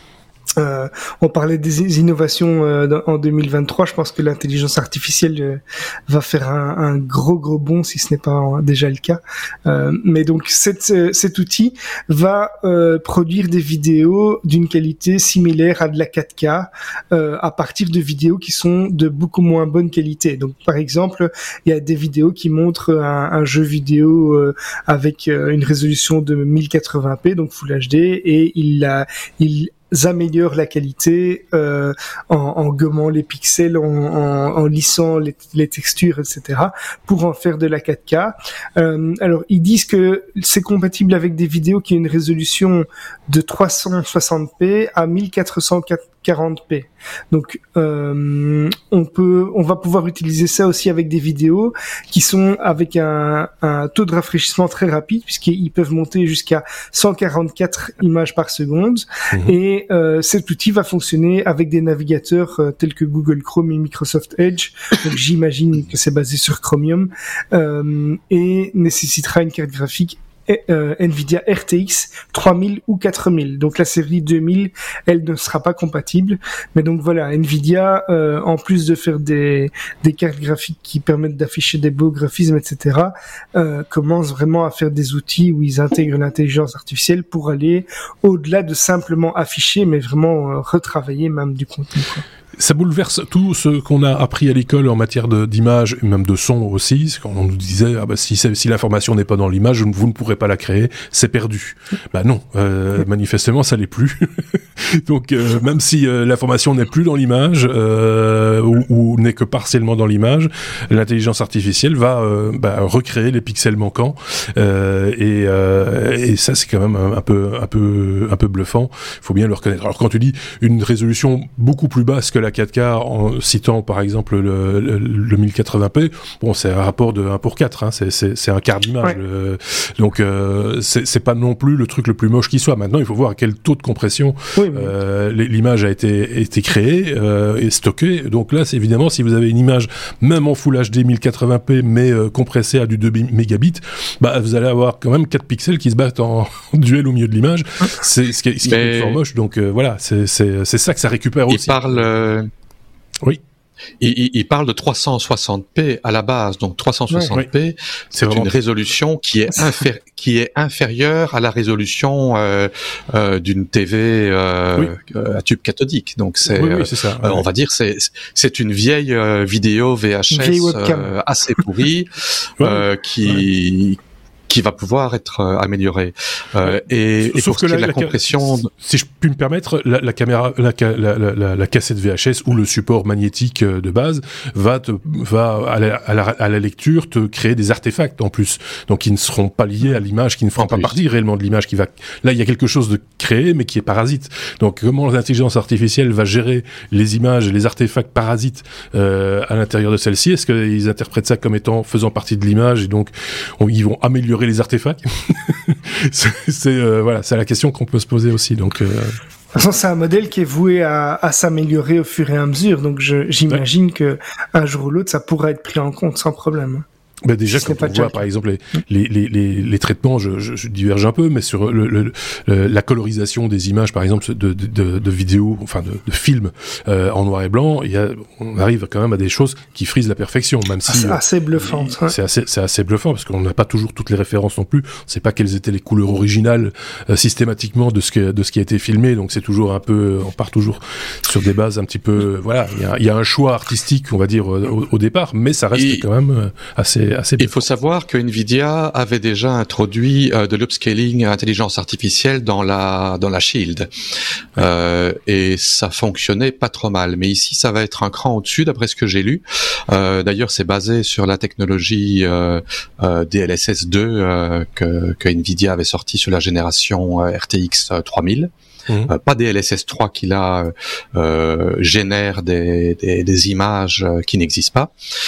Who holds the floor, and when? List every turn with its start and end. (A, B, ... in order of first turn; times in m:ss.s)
0:00.6-1:32.2 A
1:32.6-2:32.0 B
2:14.5-2:14.9 A
2:28.6-2:29.2 C
2:31.5-2:32.5 C
2:34.0-2:58.7 C
2:38.1-2:38.5 B
2:46.5-2:47.4 B
2:50.3-2:51.1 A
2:52.6-2:53.4 B
2:56.6-3:29.2 B
3:10.6-3:10.9 C
3:29.5-3:36.8 A
3:37.2-4:07.6 B
3:37.5-3:38.2 A
3:50.9-3:52.2 A
4:05.7-4:06.0 C
4:07.4-4:13.9 C
4:14.6-4:28.5 C
4:29.1-4:34.9 C